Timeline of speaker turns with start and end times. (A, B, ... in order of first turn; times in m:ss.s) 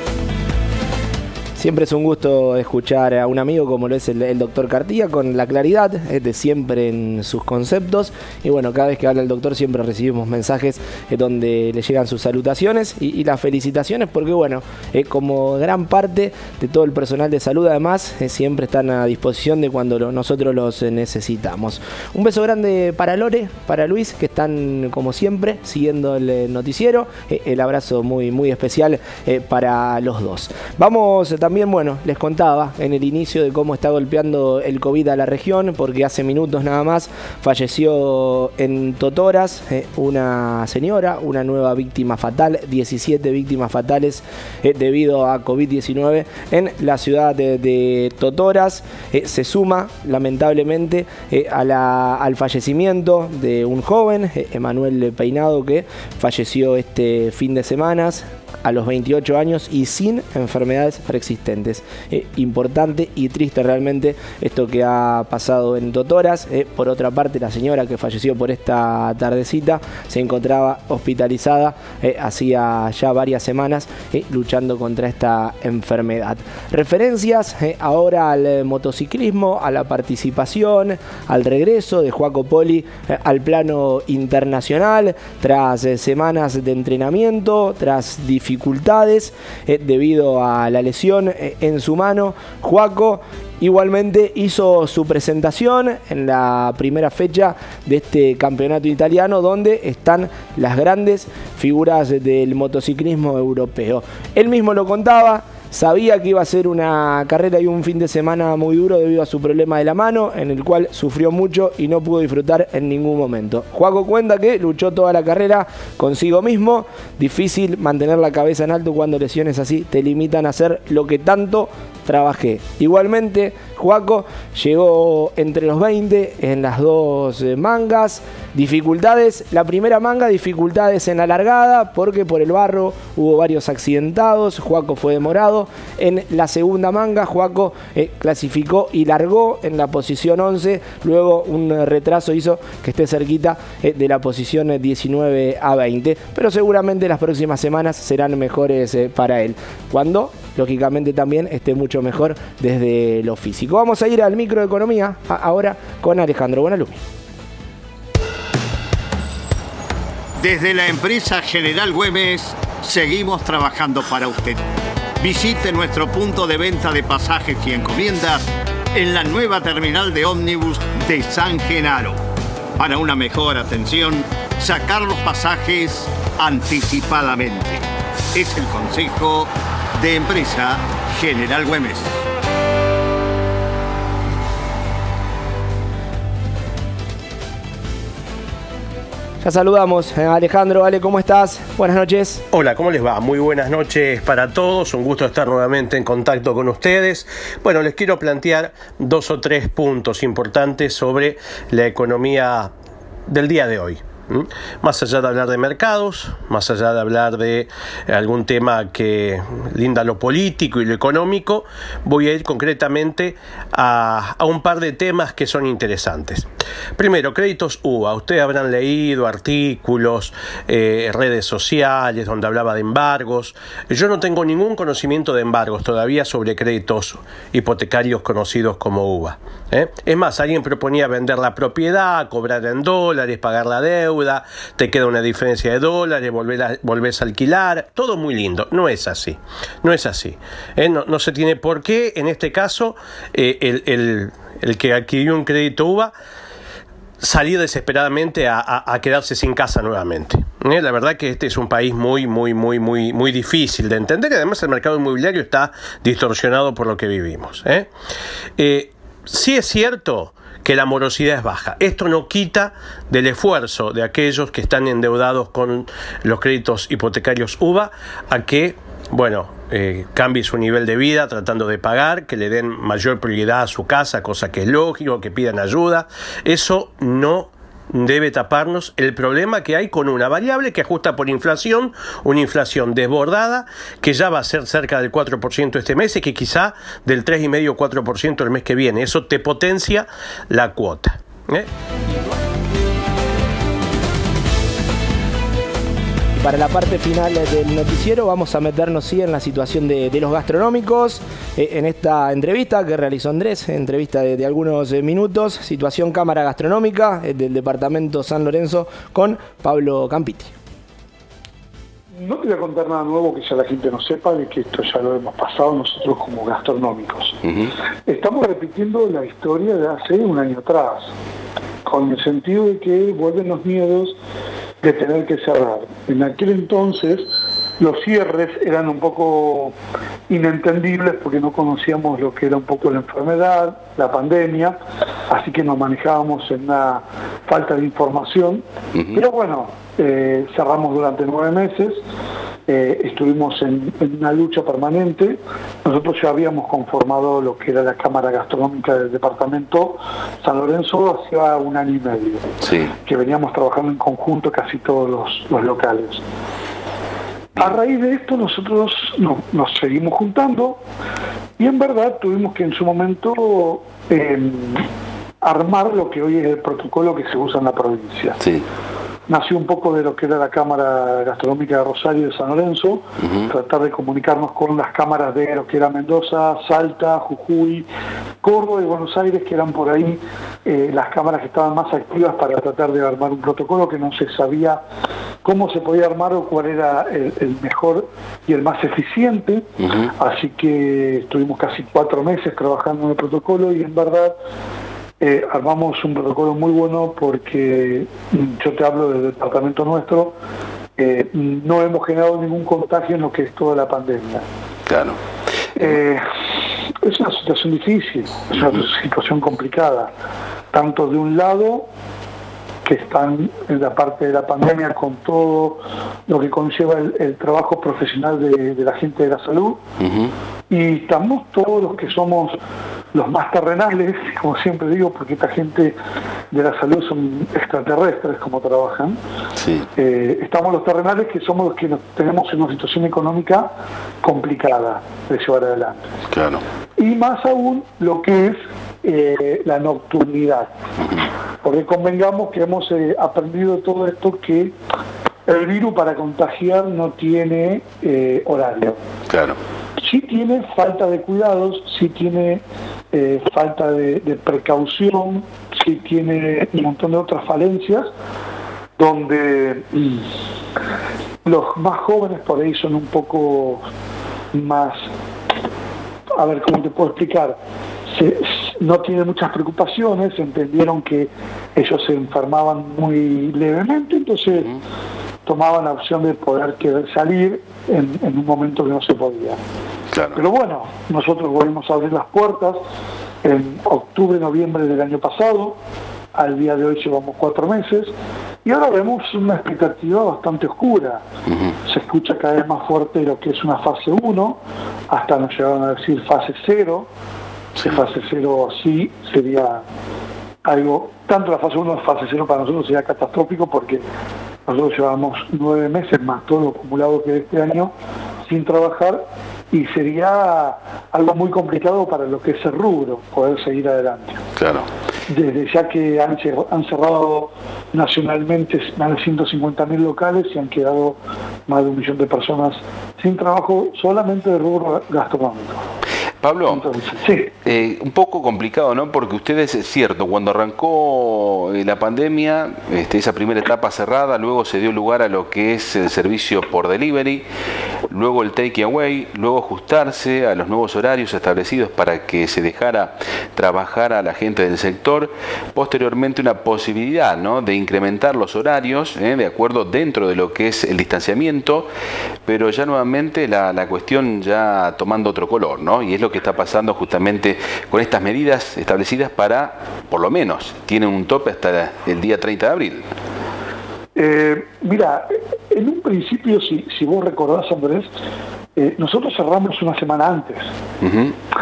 0:01.6-2:37.0 A
2:40.4-2:44.6 B
2:45.2-2:52.2 B
2:52.8-3:02.2 B
3:09.4-3:12.4 A
3:12.5-3:22.7 C
3:23.3-3:36.5 C
3:37.0-4:06.1 C
4:07.2-4:17.9 C
4:18.6-4:51.7 C
4:56.4-5:10.5 A
5:12.1-5:17.4 D
5:18.1-5:21.1 D
5:21.8-5:24.2 D
5:24.8-5:29.8 D
5:30.3-5:34.8 D
5:35.3-5:42.0 D
5:42.7-5:52.5 D
5:52.6-5:52.9 E
5:53.0-5:56.2 D
5:57.6-6:00.8 D
6:01.6-6:04.9 D
6:05.4-6:08.4 D
6:09.3-6:17.9 D
6:13.2-6:13.5 E
6:18.4-6:24.8 D
6:25.4-6:34.4 D
6:35.2-6:40.4 D
6:41.0-6:44.4 D
6:44.9-6:45.2 E
6:45.8-6:46.3 D
6:47.0-6:50.1 D
6:50.7-6:51.9 D
6:52.8-6:59.8 D
7:00.0-7:00.3 E
7:00.7-7:02.6 D
7:03.1-7:06.0 D
7:06.5-7:09.2 D
7:09.6-7:09.9 E
7:10.0-7:13.7 D
7:14.2-7:16.1 D
7:16.3-7:16.6 E
7:17.0-7:20.7 D
7:21.6-7:24.8 D
7:25.5-7:29.0 D
7:29.3-7:29.6 E
7:30.0-7:38.1 D
7:39.0-7:40.2 D
7:41.4-7:43.8 D
7:44.5-7:45.1 D
7:46.4-7:54.8 D
7:55.4-7:59.6 D
8:00.1-8:00.4 E
8:00.3-8:02.8 D
8:03.4-8:05.8 D
8:06.4-8:08.1 D
8:08.6-8:11.2 D
8:11.9-8:17.1 D
8:17.8-8:19.8 D
8:20.6-8:24.0 D
8:24.7-8:27.9 D
8:28.4-8:34.4 D
8:34.6-8:34.9 E
8:35.3-8:45.8 D
8:46.4-8:46.9 E
8:46.7-8:47.6 D
8:47.6-8:57.4 E
8:58.1-9:11.9 E
9:12.5-9:23.1 E
9:24.2-9:28.1 D
9:28.8-9:30.7 D
9:31.0-9:31.3 E